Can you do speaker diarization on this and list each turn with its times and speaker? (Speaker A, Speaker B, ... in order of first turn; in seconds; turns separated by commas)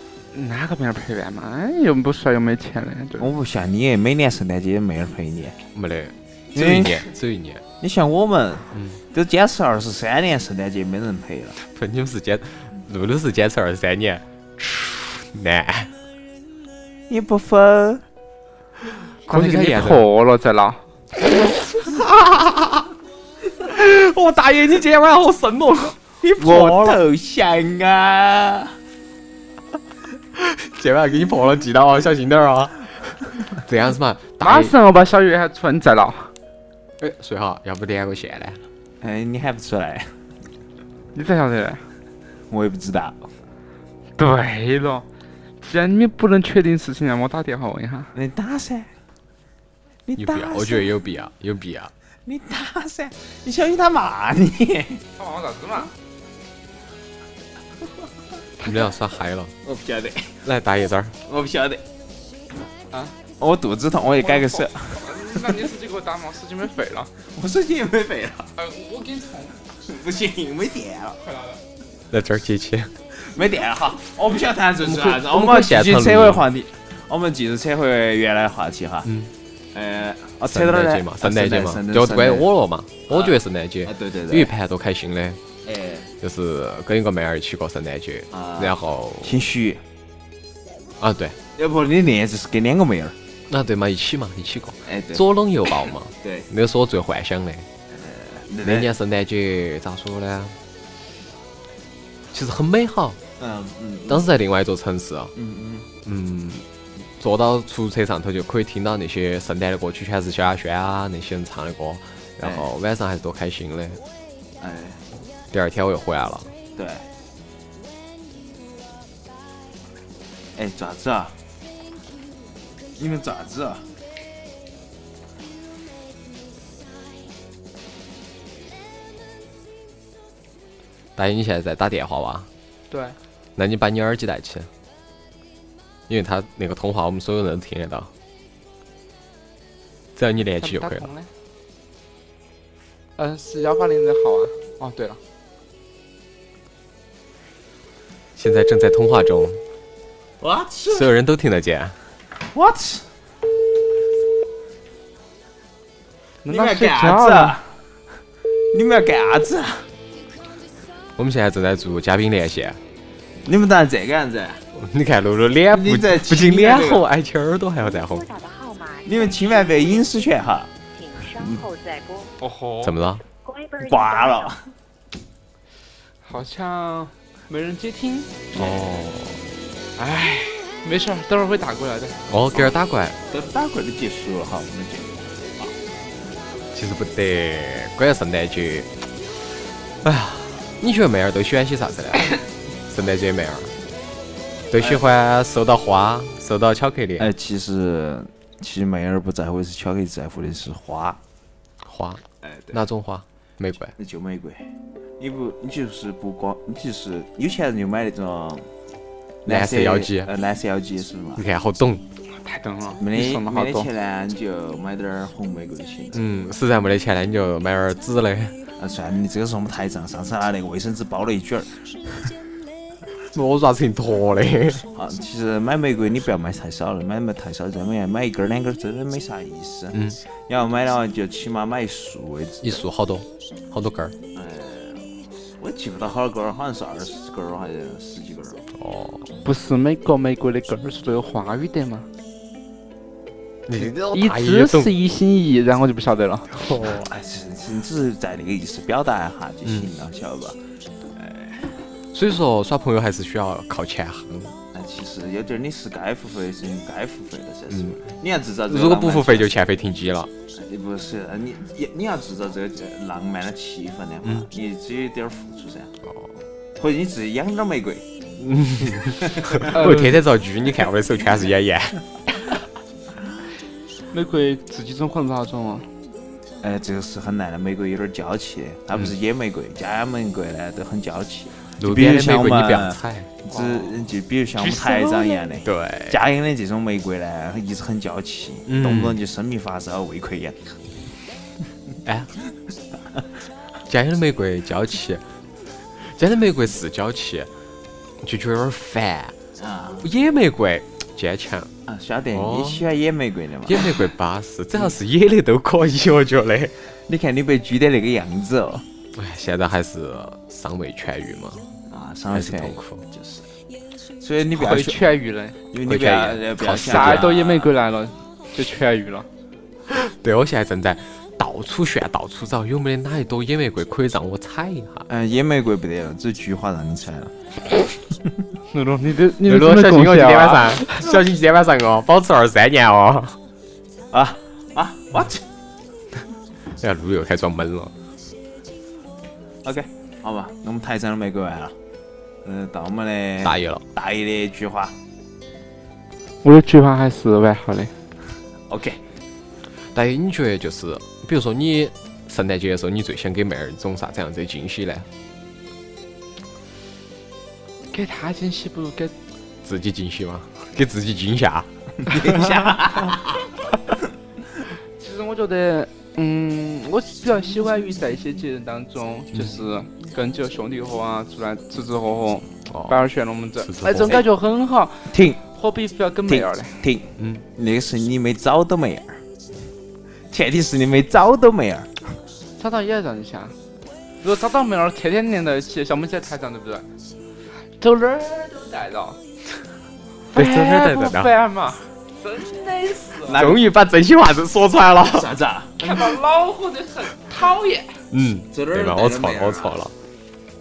Speaker A: 0.3-3.3, Speaker B: 3.2-5.6, Speaker C: 5.8-7.6, Speaker B: 6.5-7.1, Speaker B: 7.8-11.6, Speaker C: 8.7-9.0, Speaker C: 11.6-15.9, Speaker B: 17.1-18.0, Speaker C: 19.2-20.0, Speaker A: 19.3-20.8, Speaker C: 21.8-22.9, Speaker C: 23.6-27.0, Speaker B: 26.4-28.8, Speaker C: 30.4-34.8, Speaker A: 34.4-36.3, Speaker C: 37.0-38.6, Speaker B: 39.0-40.1, Speaker A: 41.1-41.9, Speaker B: 42.5-43.2, Speaker A: 44.2-45.1, Speaker A: 45.6-48.1, Speaker B: 48.1-48.9, Speaker B: 50.1-51.0, Speaker C: 50.2-51.9, Speaker B: 52.2-55.0, Speaker A: 55.2-55.9, Speaker C: 58.6-59.5, Speaker B: 59.6-60.5, Speaker C: 60.4-61.1, Speaker B: 61.2-61.8, Speaker B: 63.4-65.6, Speaker A: 64.2-67.1, Speaker B: 67.3-68.5, Speaker A: 68.6-69.6, Speaker B: 69.8-71.2, Speaker A: 71.2-71.6, Speaker C: 72.1-72.9, Speaker B: 73.1-79.1, Speaker C: 74.8-76.4, Speaker C: 79.0-79.3, Speaker B: 79.7-82.5, Speaker C: 80.4-85.4, Speaker B: 83.1-84.5, Speaker B: 85.6-86.1, Speaker C: 86.2-89.4, Speaker B: 88.3-89.8, Speaker C: 91.0-91.4, Speaker B: 91.6-93.1, Speaker C: 93.5-97.7, Speaker B: 94.8-95.2, Speaker B: 96.2-96.5, Speaker B: 97.9-98.9, Speaker C: 98.6-100.6, Speaker C: 102.3-103.2, Speaker B: 103.4-104.3, Speaker C: 104.1-105.3, Speaker B: 105.3-105.9, Speaker C: 106.0-106.6, Speaker C: 107.2-114.0, Speaker B: 112.4-112.7, Speaker B: 114.6-115.0, Speaker C: 115.5-116.5, Speaker B: 116.8-117.1, Speaker B: 120.6-121.3, Speaker B: 123.0-123.8, Speaker C: 131.2-132.5, Speaker A: 132.9-133.2, Speaker C: 133.6-134.7, Speaker C: 136.1-138.1, Speaker C: 140.2-141.1, Speaker A: 140.6-141.3, Speaker A: 143.2-145.2, Speaker C: 148.4-149.6, Speaker B: 150.4-151.1, Speaker C: 150.9-151.9, Speaker B: 152.5-153.1, Speaker A: 156.4-157.6, Speaker B: 156.5-157.8, Speaker B: 158.7-159.9, Speaker C: 161.2-162.8, Speaker B: 163.4-164.6, Speaker C: 164.8-168.3, Speaker B: 165.7-167.0, Speaker D: 167.8-170.2, Speaker B: 169.0-170.7, Speaker D: 170.9-172.3, Speaker B: 171.4-171.6, Speaker A: 172.4-172.9, Speaker C: 172.8-173.2, Speaker D: 173.3-174.5, Speaker B: 173.8-174.6, Speaker A: 176.2-178.5, Speaker C: 178.5-179.4, Speaker A: 180.0-182.2, Speaker C: 182.3-183.2, Speaker B: 182.5-182.8, Speaker B: 183.3-185.7, Speaker C: 186.7-188.9, Speaker C: 190.0-193.7, Speaker C: 194.7-197.3, Speaker B: 194.8-195.0, Speaker B: 197.2-201.2, Speaker C: 201.8-203.9, Speaker B: 202.4-202.8, Speaker B: 204.0-208.7, Speaker B: 209.4-211.4, Speaker C: 209.4-210.3, Speaker C: 211.3-212.0, Speaker A: 212.4-213.9, Speaker B: 213.0-216.2, Speaker C: 216.1-218.6, Speaker B: 218.8-222.3, Speaker C: 223.2-224.8, Speaker B: 224.9-232.8, Speaker C: 229.9-230.2, Speaker C: 232.6-234.1, Speaker B: 234.3-238.6, Speaker C: 238.8-239.3, Speaker A: 239.4-242.1, Speaker C: 243.7-244.9, Speaker A: 243.8-246.5, Speaker C: 246.5-247.1, Speaker B: 246.9-250.6, Speaker B: 251.1-251.7, Speaker C: 252.1-254.5, Speaker B: 254.7-259.5, Speaker C: 257.7-258.0, Speaker C: 258.7-260.3, Speaker B: 260.5-265.9, Speaker C: 266.1-266.3, Speaker B: 266.8-268.1, Speaker C: 268.4-272.0, Speaker B: 268.8-269.8, Speaker A: 269.7-270.2, Speaker A: 274.1-275.9, Speaker B: 276.6-290.8, Speaker C: 281.8-283.3, Speaker A: 283.5-284.0, Speaker A: 284.6-285.4, Speaker C: 285.6-286.2, Speaker C: 288.7-289.2, Speaker C: 292.1-292.3, Speaker C: 293.9-295.2, Speaker C: 296.0-297.5, Speaker C: 298.2-299.3, Speaker B: 299.6-300.1, Speaker C: 300.0-301.7, Speaker B: 301.9-303.9, Speaker C: 302.3-302.8, Speaker C: 303.7-306.7, Speaker B: 307.1-308.8, Speaker C: 309.1-311.6, Speaker B: 311.9-313.5, Speaker C: 312.3-313.0, Speaker B: 314.2-315.0, Speaker A: 314.6-315.6, Speaker B: 315.7-317.7, Speaker C: 315.8-317.3, Speaker A: 316.8-319.3, Speaker C: 319.9-325.1, Speaker B: 325.1-328.2, Speaker A: 328.7-331.2, Speaker C: 329.4-333.4, Speaker B: 334.1-335.4, Speaker C: 336.8-337.9, Speaker B: 339.6-341.7, Speaker B: 342.4-344.9, Speaker C: 343.4-343.8, Speaker A: 346.4-347.9, Speaker B: 348.7-349.0, Speaker C: 349.9-355.1, Speaker A: 357.9-359.1, Speaker C: 359.6-362.5, Speaker B: 362.1-363.3, Speaker A: 365.0-376.8, Speaker C: 369.3-369.6, Speaker C: 372.7-373.0, Speaker C: 373.6-374.2, Speaker B: 375.1-375.4, Speaker B: 376.3-379.2, Speaker C: 377.2-377.4, Speaker B: 380.3-382.2, Speaker A: 382.6-383.6, Speaker A: 384.2-386.9, Speaker A: 387.8-389.2, Speaker A: 390.3-393.4, Speaker C: 390.3-391.3, Speaker B: 393.2-393.7, Speaker C: 393.3-395.3, Speaker B: 395.1-396.1, Speaker A: 395.8-397.9, Speaker C: 398.1-399.9, Speaker B: 398.5-399.8